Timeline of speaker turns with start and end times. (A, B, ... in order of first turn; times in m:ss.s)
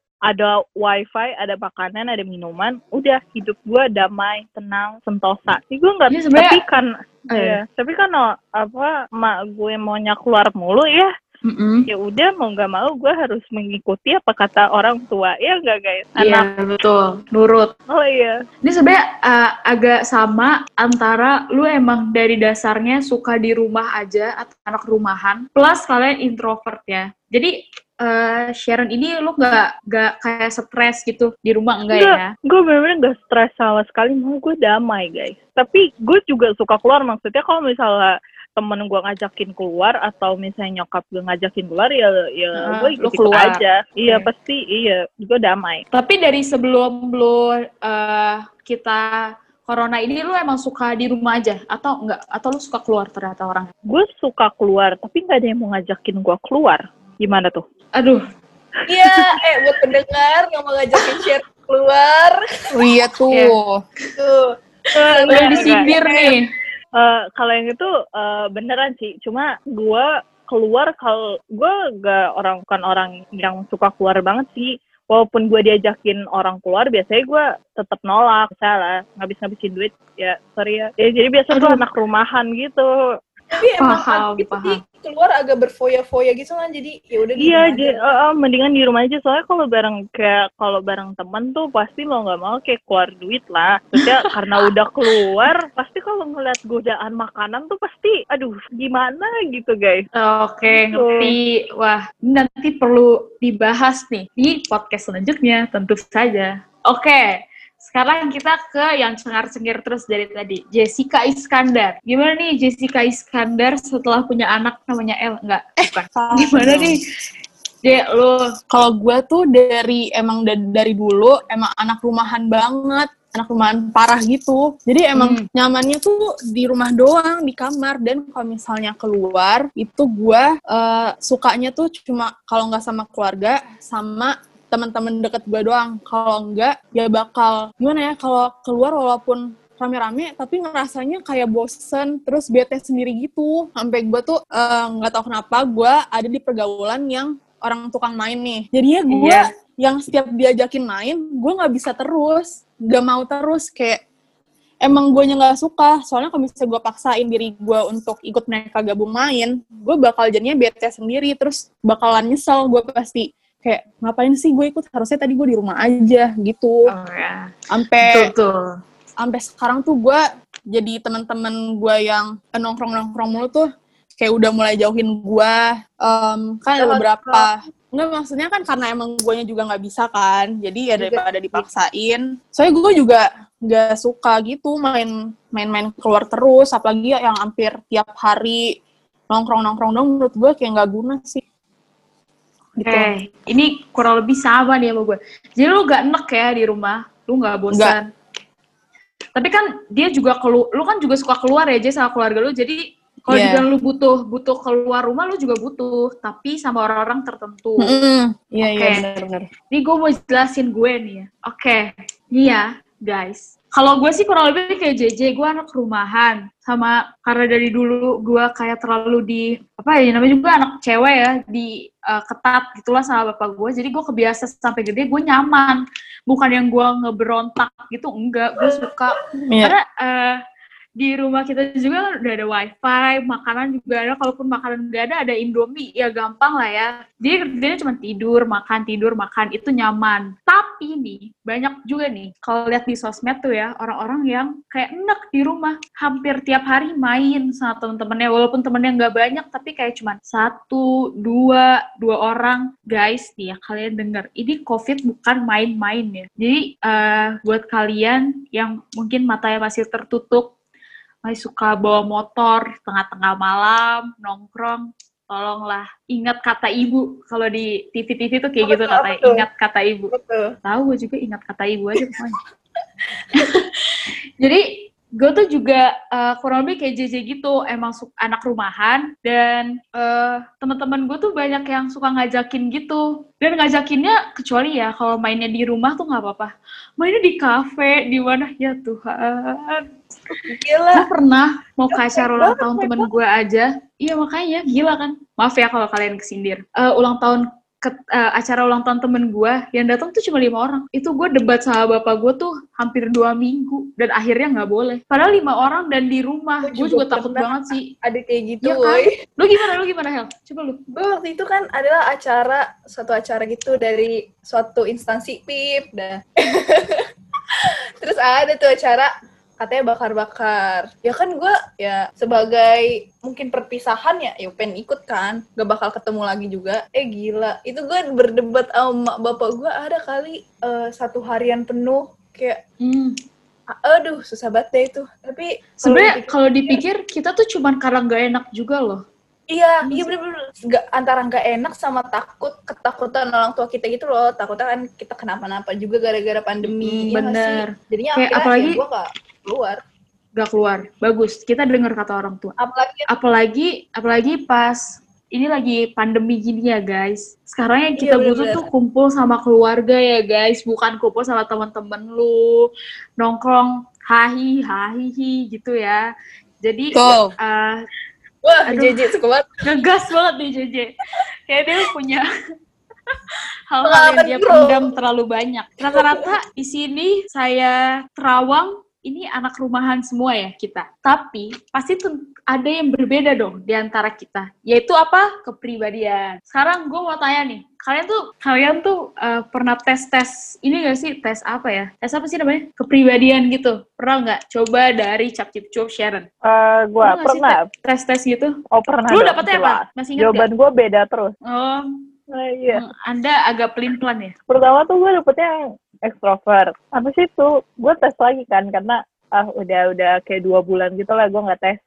0:00.3-0:11.1 A
0:06.1-0:06.6 B
0:07.3-0:07.6 B
0:11.4-0:11.9 B
0:11.9-0:16.5 A
0:16.2-0:17.7 B
0:17.9-0:18.4 A
0:18.6-0:32.3 B
0:31.9-0:45.8 A
0:42.6-0:44.3 B
0:45.9-0:53.7 B
0:53.9-0:57.6 A
0:58.0-0:58.2 B
0:58.9-1:02.4 C
1:02.7-1:03.8 D
1:04.2-1:04.6 C
1:04.9-1:06.3 A
1:05.1-1:06.2 C
1:05.3-1:06.5 B
1:07.0-1:22.9 A
1:21.5-1:21.8 B
1:23.6-1:28.1 C
1:23.8-1:24.8 B
1:27.4-1:40.0 A
1:40.2-1:57.0 B
1:40.7-1:41.4 A
1:56.1-1:57.0 D
1:57.8-1:58.5 B
1:58.7-2:34.0 D
2:05.2-2:05.5 B
2:29.1-2:29.5 B
2:34.8-2:46.9 D
2:46.9-2:48.8 B
2:47.7-2:48.3 D
2:49.2-2:50.2 D
2:50.7-3:08.6 D
2:56.8-2:57.5 C
3:01.0-3:01.6 C
3:09.3-3:11.4 D
3:12.8-3:13.1 D
3:12.8-3:18.1 B
3:19.4-3:28.0 B
3:23.3-3:23.6 D
3:27.8-3:29.5 D
3:28.7-3:29.0 B
3:29.7-3:50.4 B
3:49.4-3:49.7 D
3:51.0-4:20.5 B
4:21.2-4:30.1 B
4:28.6-4:29.5 C
4:30.1-4:30.6 C
4:30.6-4:32.4 B
4:33.3-5:07.9 B
4:50.5-4:51.1 C
4:51.9-4:53.1 C
5:06.6-5:09.2 C
5:08.6-5:10.8 B
5:10.9-5:32.6 C
5:32.8-5:33.2 B
5:33.8-5:36.8 C
5:35.8-5:39.0 B
5:39.5-5:49.8 C
5:39.8-5:40.1 B
5:46.6-5:48.8 B
5:50.4-5:52.6 B
5:52.6-5:53.1 C
5:53.1-6:06.0 B
5:58.0-5:58.7 C
6:06.6-6:07.8 B
6:07.0-6:07.3 D
6:08.4-6:09.6 C
6:08.7-6:08.9 B
6:09.6-6:10.9 B
6:11.5-6:12.3 B
6:13.1-6:36.3 B
6:13.8-6:14.9 C
6:15.8-6:16.3 C
6:36.4-6:37.7 A
6:37.0-6:38.6 B
6:38.7-6:41.3 A
6:39.1-6:40.5 B
6:41.5-6:42.1 B
6:42.3-6:42.9 A
6:42.7-6:44.4 B
6:44.5-6:45.5 A
6:46.1-6:51.8 A